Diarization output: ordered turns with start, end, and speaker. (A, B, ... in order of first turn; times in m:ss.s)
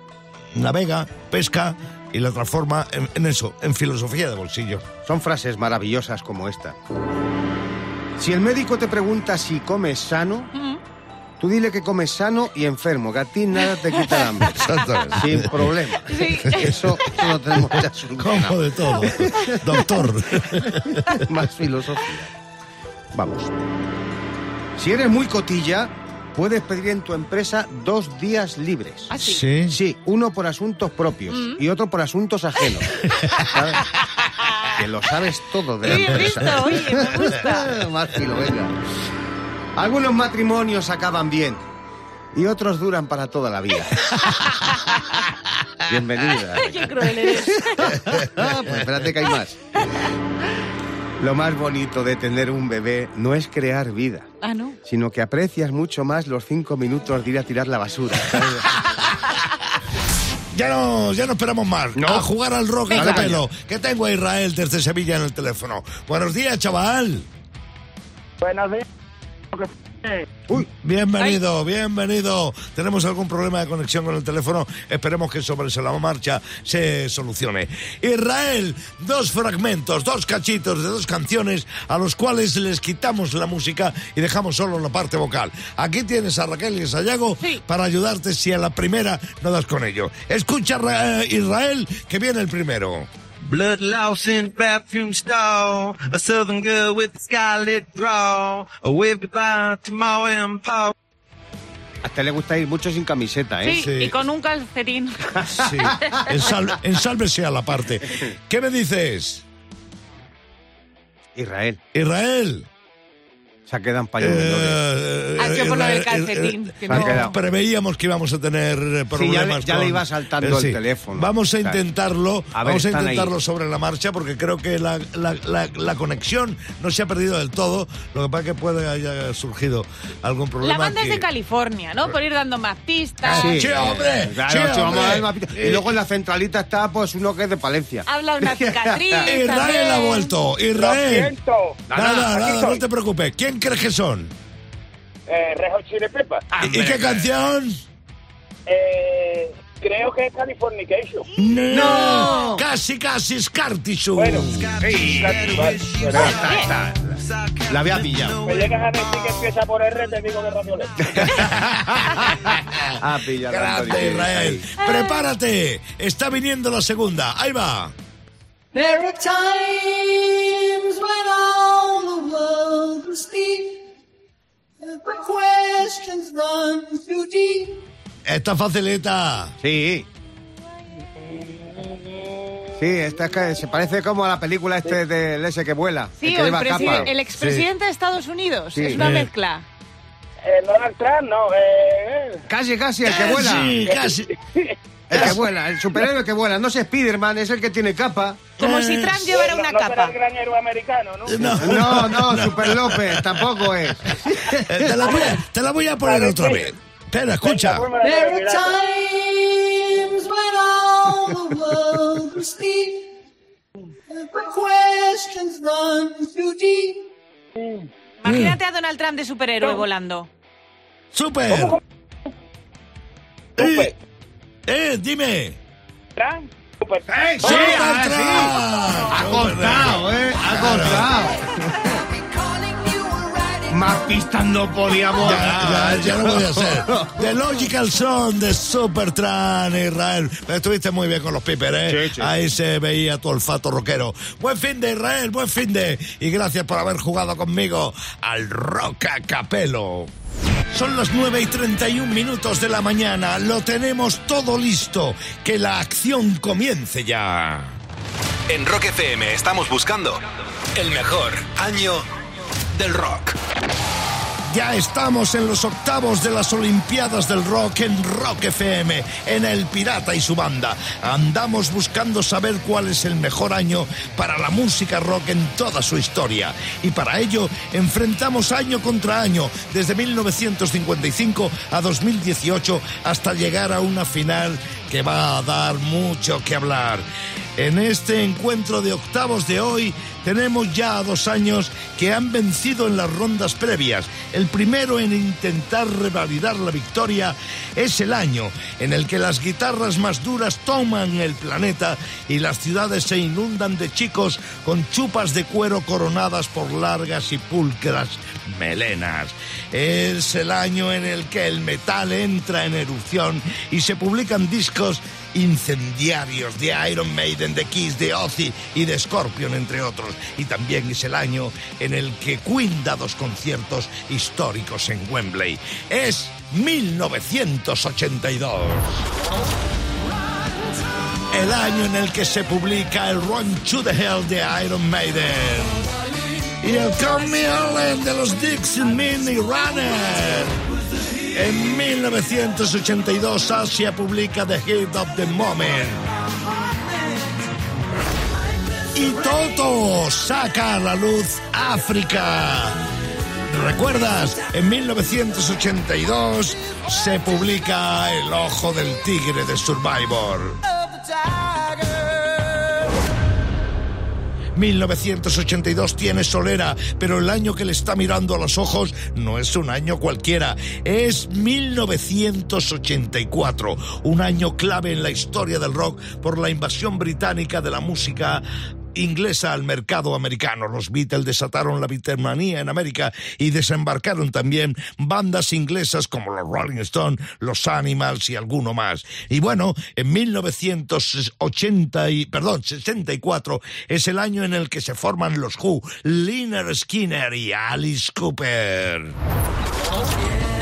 0:00.5-0:04.8 A
0:05.0-0:06.8 B
0:08.2-0:10.5 B
0:11.4-0:14.5 B
0:14.5-0:15.7 A
0:15.1-0:19.8 B
0:16.0-0:17.2 C
0:18.2-0:21.1 A
0:21.1-0:22.3 B
0:23.1-0:23.5 B
0:24.8-0:29.2 B
0:29.1-0:29.4 C
0:29.1-0:29.7 A
0:29.7-0:33.8 B
0:31.3-0:31.6 C
0:34.7-0:38.7 B
0:35.8-0:37.7 C
0:39.8-0:41.6 B
0:42.3-0:44.2 B
0:45.9-0:49.6 B
0:46.5-0:48.2 C
0:51.2-0:54.3 B
0:54.4-0:54.8 C
0:54.8-0:58.7 B
1:00.5-1:07.3 A
1:02.0-1:02.3 B
1:02.9-1:03.3 C
1:02.9-1:03.4 B
1:08.4-1:08.8 D
1:09.5-1:10.3 D
1:10.5-1:33.1 A
1:33.4-1:40.9 E
1:42.0-1:43.8 B
1:43.6-1:46.2 C
1:43.8-1:44.1 A
1:45.5-1:49.4 A
1:51.3-1:51.8 B
1:51.9-1:52.7 A
1:53.7-1:54.8 B
1:54.2-2:11.3 A
1:55.4-1:57.3 C
1:56.9-1:57.3 B
1:59.1-2:01.8 B
2:02.5-2:03.3 B
2:10.6-2:13.7 C
2:13.2-2:15.9 A
2:13.2-2:19.3 B
2:18.1-2:20.3 C
2:19.2-2:21.3 A
2:20.7-2:22.8 D
2:21.9-2:22.4 B
2:21.9-2:24.3 A
2:25.3-2:26.5 D
2:26.6-2:27.8 A
2:26.7-2:27.0 E
2:28.7-2:31.3 D
2:31.4-2:34.8 A
2:31.7-2:32.5 C
2:31.7-2:32.6 B
2:34.2-2:36.3 D
2:34.5-2:39.4 E
2:36.1-2:37.1 B
2:36.3-2:36.7 C
2:37.7-2:38.4 B
2:38.4-2:40.9 D
2:41.2-2:47.9 A
2:41.2-2:41.5 B
2:43.0-2:44.6 B
2:44.8-2:45.2 C
2:48.7-2:53.8 F
2:54.8-2:57.8 F
2:58.2-2:59.5 A
2:59.6-3:00.1 B
3:01.2-3:02.8 D
3:02.8-3:07.1 B
3:06.2-3:09.6 C
3:07.3-3:07.7 A
3:08.7-3:09.0 B
3:08.9-3:09.3 A
3:10.4-3:12.4 D
3:12.5-3:13.8 B
3:13.0-3:14.3 A
3:13.8-3:14.7 D
3:15.1-3:18.5 B
3:15.1-3:15.4 A
3:18.6-3:19.3 A
3:18.6-3:20.1 C
3:19.3-3:21.5 D
3:21.2-3:23.5 A
3:21.6-3:25.2 B
3:24.5-3:27.9 A
3:26.0-3:26.7 D
3:27.4-3:28.8 D
3:28.0-3:33.1 F
3:34.1-3:37.1 F
3:37.6-3:37.8 D
3:38.2-3:40.3 C
3:38.2-3:38.6 A
3:41.1-3:41.8 A
3:41.5-3:41.8 D
3:43.6-3:43.9 A
3:43.6-3:43.9 D
3:44.7-3:45.6 A
3:46.2-3:47.8 D
3:47.1-3:51.5 B
3:47.4-3:51.1 A
3:51.6-3:54.3 F
3:53.7-3:57.1 B
3:55.2-4:10.1 A
4:01.9-4:02.3 B
4:10.7-4:17.8 A
4:18.5-4:20.2 G
4:20.7-4:22.0 G
4:22.7-4:23.4 G
4:24.5-5:29.0 A
5:31.3-5:35.8 A
5:36.6-5:40.6 A
5:41.3-5:46.0 A
5:48.9-5:52.8 A
5:53.5-6:00.6 A
6:04.6-6:18.4 A
6:18.9-6:39.2 A